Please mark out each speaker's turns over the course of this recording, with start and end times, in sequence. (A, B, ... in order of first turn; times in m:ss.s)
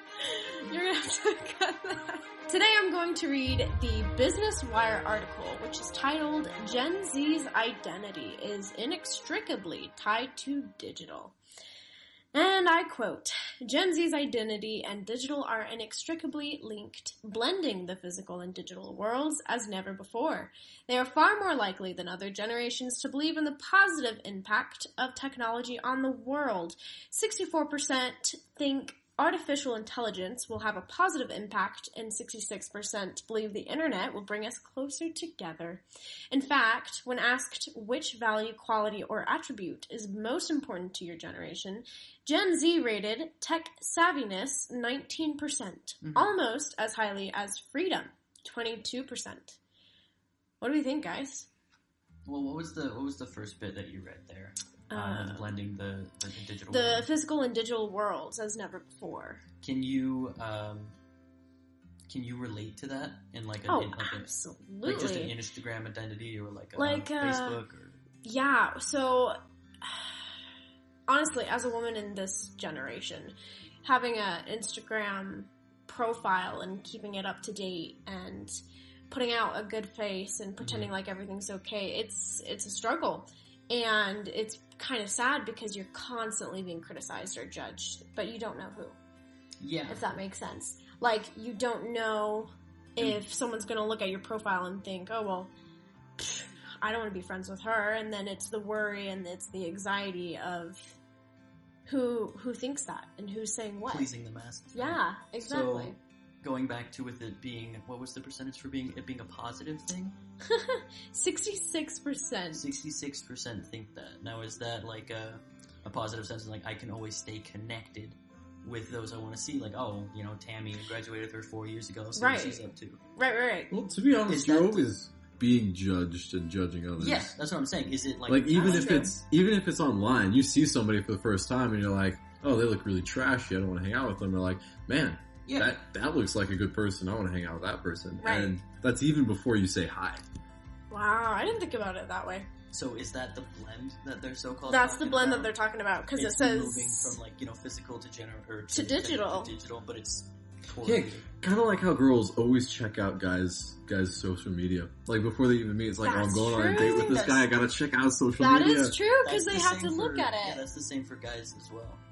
0:00.2-0:11.3 A
0:12.3-0:49.6 A
0:46.0-0:46.3 B
0:50.6-0:51.5 A
0:52.3-0:57.1 B
0:54.9-0:55.5 A
0:56.7-0:59.4 A
0:59.6-1:01.0 B
1:02.1-1:04.3 B
1:03.7-1:05.3 A
1:04.8-1:08.0 B
1:06.8-1:07.6 A
1:08.2-1:10.2 A
1:11.1-1:18.6 A
1:19.1-1:29.0 A
1:20.6-1:20.9 B
1:29.6-1:30.1 B
1:29.9-1:35.5 A
1:36.2-1:40.9 A
1:41.8-1:44.1 A
1:43.8-1:50.1 B
1:44.7-1:46.0 A
1:50.4-1:52.7 A
1:52.5-2:03.0 B
2:02.1-2:03.7 A
2:03.7-2:07.3 C
2:04.2-2:04.8 B
2:07.0-2:09.2 B
2:08.3-2:20.2 C
2:08.5-2:09.2 A
2:15.4-2:15.8 B
2:18.2-2:18.6 A
2:20.9-2:22.5 A
2:22.7-2:25.6 B
2:24.7-2:27.2 A
2:26.1-2:31.3 B
2:28.7-2:29.5 A
2:30.8-2:39.0 C
2:36.0-2:37.5 A
2:38.4-2:40.6 A
2:39.2-2:42.0 B